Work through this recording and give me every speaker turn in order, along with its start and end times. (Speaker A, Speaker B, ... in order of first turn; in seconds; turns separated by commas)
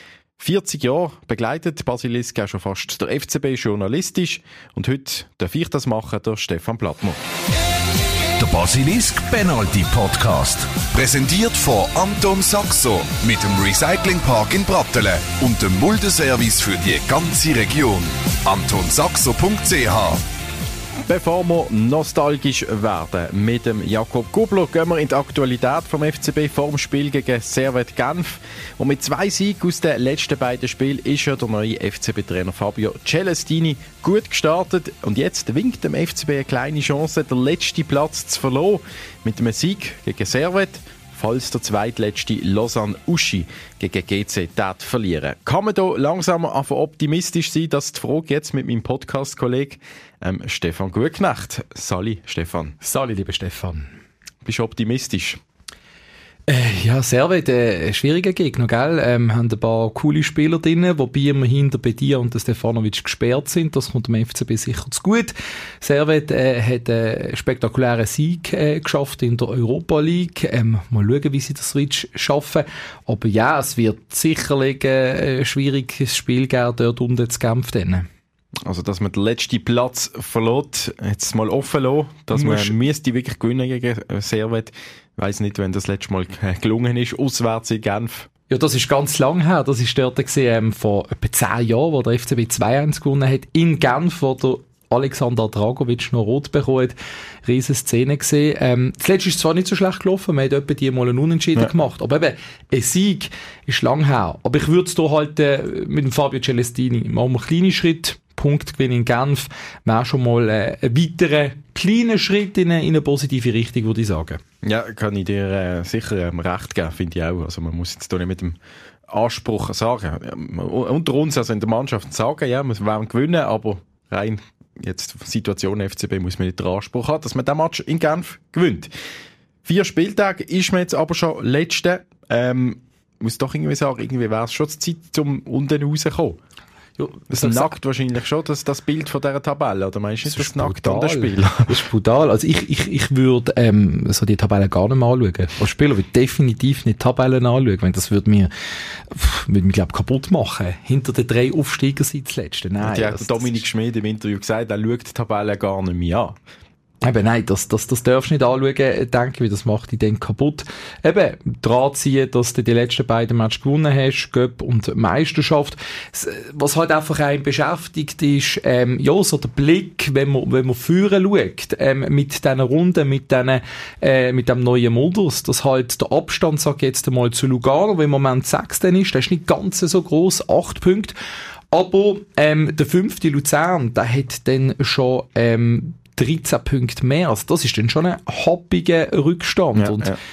Speaker A: 0.4-7.2, Speaker B: 8.4-20.2, Speaker A: 21.1-52.7, Speaker C: 52.8-53.9, Speaker A: 54.4-55.4, Speaker C: 56.5-78.1, Speaker A: 78.6-88.3, Speaker C: 82.3-82.8, Speaker C: 88.5-114.4, Speaker A: 114.6-118.6, Speaker A: 119.1-128.9, Speaker A: 129.6-136.4, Speaker C: 137.0-137.7, Speaker A: 137.3-141.7, Speaker C: 140.2-148.5, Speaker C: 149.1-153.6, Speaker A: 152.8-156.4, Speaker C: 157.0-181.1, Speaker C: 181.7-190.1, Speaker A: 189.7-190.2